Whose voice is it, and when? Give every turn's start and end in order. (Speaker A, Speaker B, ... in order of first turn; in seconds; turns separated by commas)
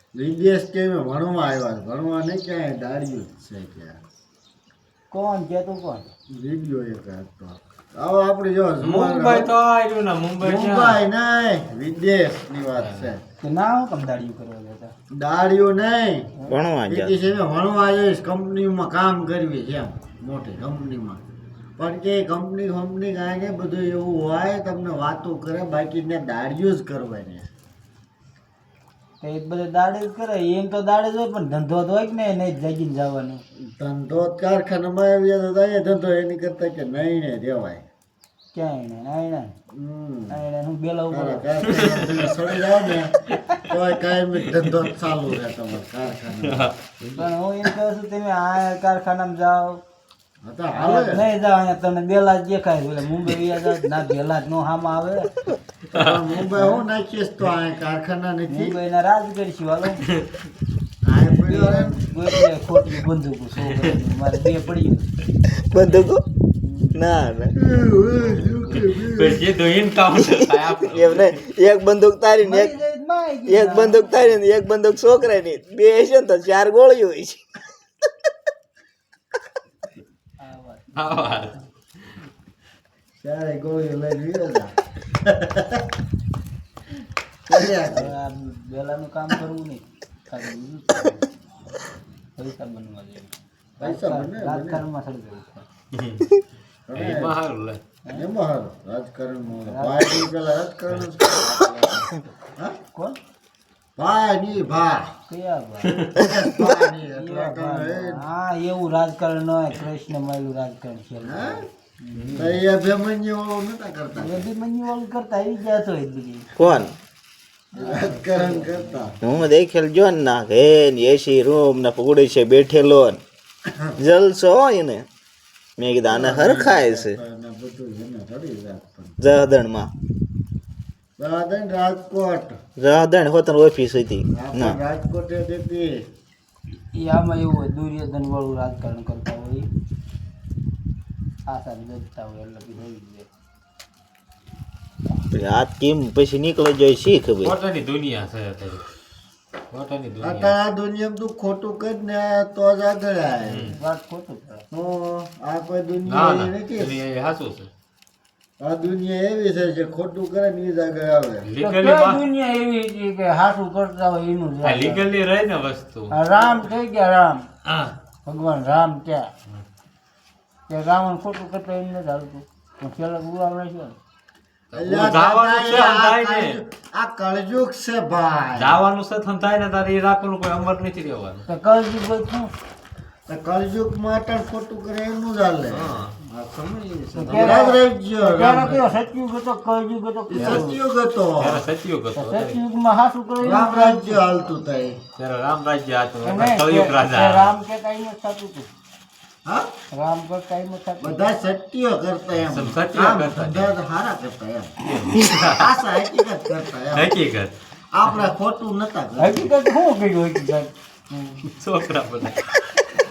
Speaker A: 0.1-4.0, Speaker B: 5.1-6.1, Speaker A: 6.3-9.5, Speaker C: 8.8-11.0, Speaker A: 10.4-13.2, Speaker C: 12.8-13.2, Speaker B: 13.4-14.9, Speaker A: 15.1-16.3, Speaker D: 16.5-17.1, Speaker A: 16.9-21.2, Speaker A: 21.8-27.5, Speaker B: 29.2-33.4, Speaker A: 33.7-37.8, Speaker B: 38.5-39.5, Speaker A: 39.7-40.4, Speaker B: 40.3-41.9, Speaker A: 41.1-46.7, Speaker C: 41.7-42.5, Speaker C: 44.5-44.9, Speaker C: 46.4-47.3, Speaker B: 47.1-49.8, Speaker A: 50.4-51.2, Speaker B: 50.8-55.3, Speaker A: 55.9-58.8, Speaker C: 55.9-56.2, Speaker B: 56.6-56.9, Speaker B: 58.5-60.1, Speaker A: 61.0-62.0, Speaker B: 61.5-65.1, Speaker D: 65.6-66.2, Speaker B: 66.6-67.0, Speaker D: 67.0-67.6, Speaker A: 67.6-69.5, Speaker C: 68.2-71.4, Speaker D: 70.2-72.8, Speaker B: 72.4-74.4, Speaker D: 73.5-77.4, Speaker B: 80.4-81.2, Speaker C: 80.9-82.1, Speaker A: 83.2-84.7, Speaker A: 85.3-85.8, Speaker A: 87.5-88.2, Speaker B: 87.9-91.3, Speaker B: 92.4-95.7, Speaker A: 93.8-94.8, Speaker C: 95.9-96.3, Speaker A: 96.9-97.3, Speaker C: 96.9-97.8, Speaker A: 98.1-101.5, Speaker B: 99.5-100.3, Speaker B: 101.2-102.3, Speaker A: 104.0-105.1, Speaker B: 105.3-106.0, Speaker C: 105.9-106.2, Speaker A: 106.2-108.2, Speaker B: 107.0-112.5, Speaker A: 111.2-111.6, Speaker C: 112.1-112.6, Speaker A: 112.4-114.5, Speaker B: 114.2-116.5, Speaker D: 116.6-116.9, Speaker B: 117.8-119.1, Speaker A: 117.8-119.2, Speaker D: 119.2-123.2, Speaker D: 124.0-125.0, Speaker D: 125.8-127.2, Speaker A: 126.1-129.2, Speaker D: 129.2-129.9, Speaker A: 131.2-132.6, Speaker D: 132.8-134.8, Speaker A: 134.3-135.9, Speaker B: 136.9-139.7, Speaker B: 141.5-143.3, Speaker D: 145.3-147.5, Speaker C: 147.4-148.8, Speaker C: 149.7-150.6, Speaker A: 150.2-153.8, Speaker C: 153.4-153.8, Speaker B: 153.8-154.7, Speaker A: 154.7-157.0, Speaker C: 156.1-157.7, Speaker A: 158.6-161.5, Speaker C: 161.4-162.2, Speaker B: 161.6-165.0, Speaker C: 164.6-166.2, Speaker B: 166.1-167.4, Speaker C: 167.7-167.9, Speaker B: 168.3-169.3, Speaker B: 170.7-174.0, Speaker C: 174.7-176.6, Speaker A: 174.7-178.8, Speaker C: 178.6-181.5, Speaker B: 181.5-182.5, Speaker A: 183.3-188.8, Speaker C: 185.7-186.2, Speaker B: 187.2-190.8, Speaker A: 190.3-191.7, Speaker C: 190.4-190.7, Speaker C: 191.4-192.6, Speaker B: 192.2-194.2, Speaker A: 193.4-195.0, Speaker C: 195.2-197.5, Speaker B: 196.2-198.7, Speaker B: 199.9-201.2, Speaker A: 201.0-204.8, Speaker C: 202.4-203.8, Speaker C: 204.8-205.7, Speaker A: 205.6-207.1, Speaker C: 206.9-207.6, Speaker A: 207.9-209.5, Speaker B: 209.2-210.7, Speaker A: 211.1-211.4, Speaker C: 211.6-212.5